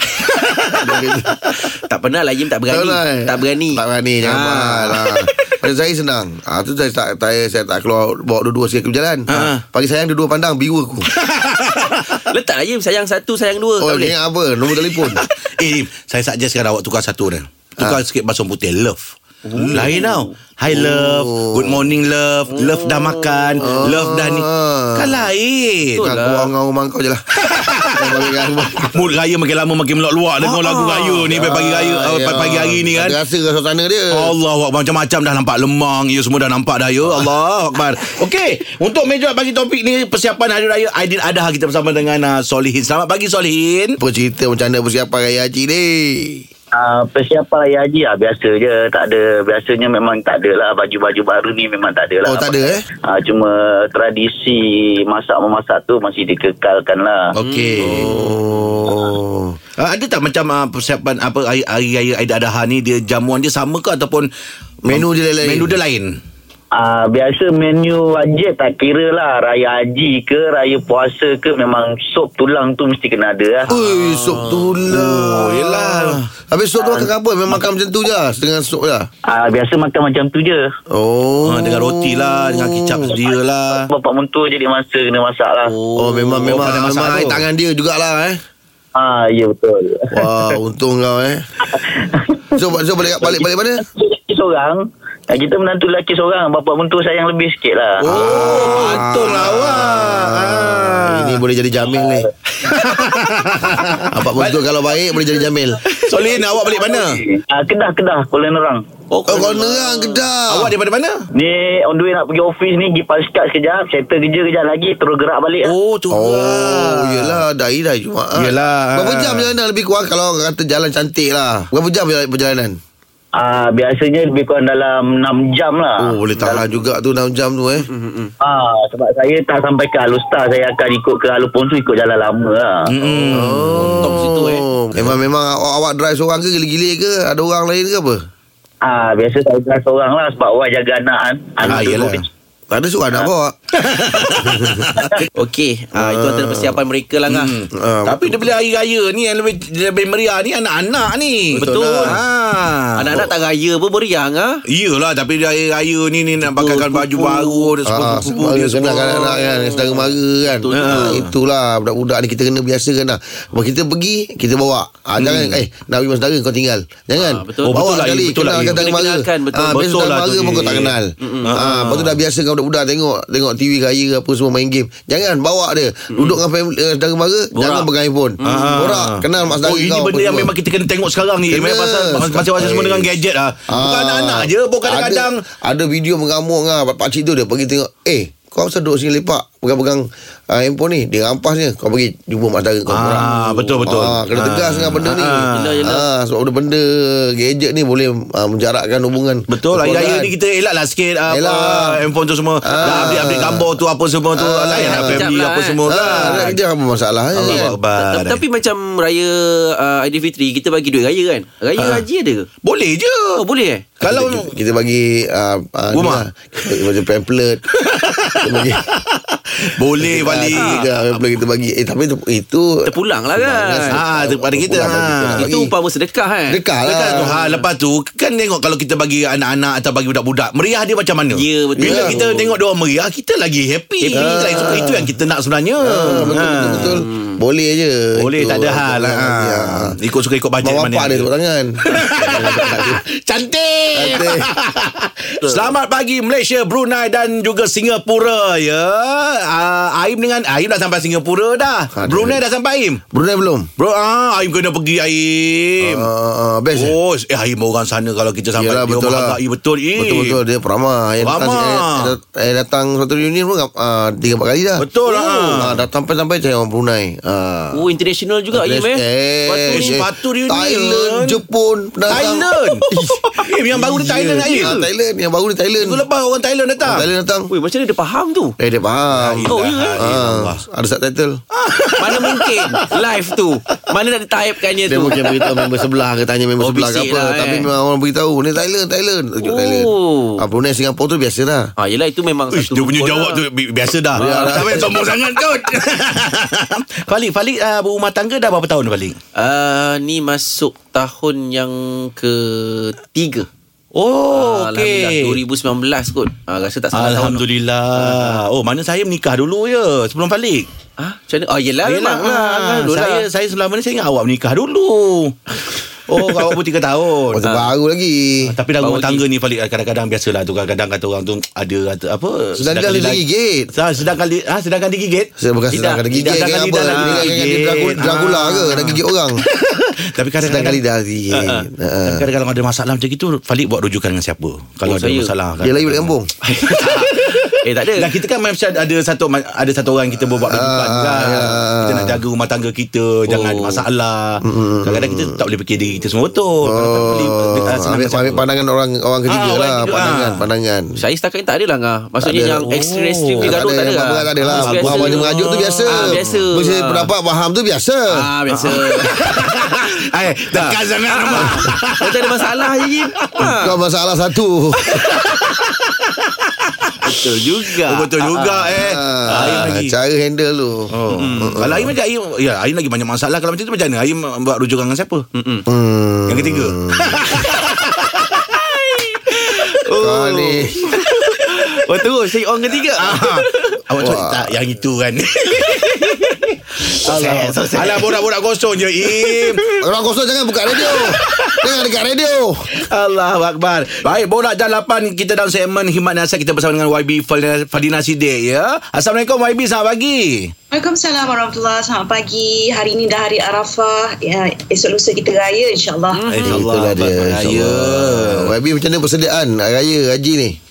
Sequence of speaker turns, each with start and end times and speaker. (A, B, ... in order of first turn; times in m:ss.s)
0:00.3-0:00.8 A
0:00.8-0:01.5 B
0:01.7-0:05.6 C
0:02.7-0:11.1 B
0:09.3-0:09.6 A
0:11.2-0:12.2 A
0:12.3-0:14.2 C
0:13.8-0:15.2 B
0:15.2-0:26.1 A
0:19.4-0:20.3 C
0:19.7-0:19.9 B
0:20.7-0:21.9 B
0:22.5-0:23.9 C
0:23.6-0:25.3 B
0:26.0-0:26.5 C
0:26.0-0:27.2 B
0:27.4-0:28.3 A
0:27.9-0:29.1 B
0:28.9-0:33.2 A
0:30.5-0:31.2 C
0:31.1-0:34.3 B
0:34.1-0:44.0 A
0:44.0-0:46.5 B
0:46.7-0:57.3 D
0:52.2-0:52.8 B
0:57.4-0:58.2 A
0:57.4-0:58.9 C
0:57.8-0:59.6 B
0:59.8-1:04.3 A
1:04.8-1:05.7 B
1:04.9-1:06.1 A
1:06.7-1:13.7 D
1:13.7-1:19.1 B
1:13.8-1:14.8 C
1:14.9-1:16.3 A
1:19.3-1:20.7 D
1:20.9-1:23.1 B
1:21.4-1:23.9 A
1:23.8-1:25.7 D
1:25.6-1:26.7 C
1:26.0-1:28.4 B
1:26.5-1:27.4 A
1:29.0-1:30.2 D
1:30.1-1:31.4 B
1:31.7-1:32.6 D
1:32.6-1:33.8 B
1:33.3-1:38.0 D
1:38.0-1:42.3 B
1:38.1-1:41.4 A
1:38.2-1:39.4 C
1:42.0-1:42.3 D
1:42.6-1:44.7 A
1:44.1-1:45.8 B
1:46.0-1:47.2 A
1:46.4-1:48.8 D
1:49.1-1:50.2 C
1:49.3-1:49.6 A
1:49.3-1:50.8 B
1:50.5-1:51.3 A
1:51.3-1:55.7 D
1:55.6-1:57.4 A
1:56.1-2:02.8 B
1:58.4-1:59.5 A
2:03.4-2:06.8 D
2:06.0-2:07.9 B
2:07.8-2:08.3 C
2:08.4-2:12.9 D
2:12.9-2:14.2 A
2:13.0-2:14.7 C
2:13.3-2:18.2 B
2:18.8-2:22.2 D
2:21.6-2:22.2 A
2:22.7-2:23.6 B
2:23.8-2:25.1 A
2:24.4-2:25.0 B
2:25.4-2:27.6 C
2:26.0-2:26.8 B
2:27.3-2:33.3 A
2:27.8-2:28.5 B
2:31.6-2:32.2 B
2:31.6-2:32.2 C
2:33.0-2:34.6 C
2:34.7-2:39.2 A
2:36.4-2:37.8 C
2:37.9-3:00.5 B
2:39.1-2:41.3 C
2:40.7-2:41.3 A
2:45.2-2:45.6 A
2:47.2-2:49.8 C
2:47.6-2:48.9 A
2:49.7-2:52.2 A
2:51.2-2:51.7 C
2:56.1-2:56.4 C
2:57.6-2:57.9 C
2:58.4-2:59.0 C
2:58.4-3:05.4 A
3:01.5-3:03.1 B
3:03.7-3:20.3 B
3:12.9-3:15.8 A
3:15.5-3:16.1 C
3:19.5-3:26.6 A
3:21.3-3:22.0 B
3:22.6-3:23.7 B
3:24.4-3:25.3 B
3:24.8-3:26.5 C
3:25.9-3:27.7 B
3:27.4-3:28.4 A
3:27.4-3:32.5 C
3:31.8-3:32.0 A
3:32.6-3:33.4 A
3:33.4-3:33.9 C
3:34.0-3:34.5 A
3:34.0-3:37.6 B
3:35.9-3:36.8 A
3:37.8-3:40.9 A
3:38.4-3:38.8 B
3:40.0-3:45.7 B
3:40.5-3:40.9 C
3:42.9-3:44.0 C
3:43.9-3:45.5 A
3:45.4-3:46.6 C
3:46.5-3:47.4 B
3:46.9-3:57.0 A
3:47.4-3:47.6 C
3:51.3-3:52.6 C
3:51.8-3:52.2 B
3:54.0-3:54.8 C
3:54.2-3:55.0 B
3:55.9-4:00.0 B
3:56.0-3:57.4 C
3:58.2-4:01.3 A
4:00.6-4:03.0 B
4:01.9-4:13.0 A
4:04.0-4:04.5 B
4:12.0-4:12.4 B
4:13.1-4:13.7 B
4:13.8-4:16.1 A
4:15.8-4:17.0 B
4:16.8-4:20.4 A
4:18.6-4:19.4 B
4:20.0-4:27.8 B
4:21.2-4:22.1 A
4:24.8-4:25.8 A
4:27.7-4:30.0 C
4:28.5-4:33.2 B
4:29.7-4:31.4 A
4:32.1-4:34.8 A
4:33.7-4:36.0 B
4:33.9-4:34.8 C
4:35.8-4:37.1 A
4:36.8-4:37.5 B
4:37.5-4:38.6 C
4:38.6-4:41.4 B
4:39.2-4:40.6 A
4:39.5-4:40.0 C
4:41.6-4:42.9 A
4:42.0-4:45.5 C
4:44.9-4:51.7 B
4:46.6-4:47.7 C
4:49.4-4:50.4 C
4:51.8-4:53.4 C
4:52.5-4:59.2 A
4:54.1-4:55.0 C
4:54.2-4:55.0 B
4:59.4-5:03.5 C
5:04.0-5:05.4 A
5:04.3-5:07.4 C
5:06.9-5:10.7 A
5:08.0-5:08.4 C
5:11.0-5:13.3 C
5:11.8-5:17.6 A
5:17.3-5:18.6 B
5:18.5-5:23.2 A
5:18.8-5:19.2 C
5:22.6-5:23.7 B
5:23.7-5:25.3 A
5:25.4-5:29.4 B
5:25.7-5:27.3 C
5:26.2-5:30.8 A
5:30.4-5:32.2 B
5:31.3-5:31.6 C
5:32.0-5:36.1 A
5:34.8-5:35.3 C
5:35.6-5:36.3 B
5:36.4-5:38.2 C
5:36.7-5:48.4 A
5:40.5-5:42.2 B
5:43.3-5:43.8 C
5:44.4-5:45.4 B
5:46.6-5:50.9 B
5:49.3-5:50.4 A
5:51.0-5:57.1 C
5:52.2-5:52.7 B
5:52.7-5:53.6 A
5:53.4-5:58.0 B
5:54.4-5:56.4 A
5:58.1-5:59.3 C
5:58.5-6:03.6 A
6:00.5-6:03.8 C
6:03.6-6:05.1 B
6:04.9-6:10.0 A
6:07.0-6:08.8 C
6:08.8-6:11.9 B
6:10.9-6:15.3 A
6:11.1-6:11.6 C
6:15.4-6:15.7 C
6:15.7-6:17.2 B
6:16.3-6:19.7 A
6:19.6-6:23.8 C
6:20.0-6:20.9 B
6:20.9-6:21.8 A
6:23.0-6:29.6 A
6:24.0-6:24.5 B
6:26.0-6:26.3 C
6:26.9-6:28.1 C
6:29.1-6:29.8 C
6:29.8-6:32.7 B
6:30.8-6:31.7 A
6:32.8-6:40.5 A
6:40.7-6:46.3 E
6:46.1-6:46.6 C
6:46.3-6:48.5 A
6:46.5-6:50.6 B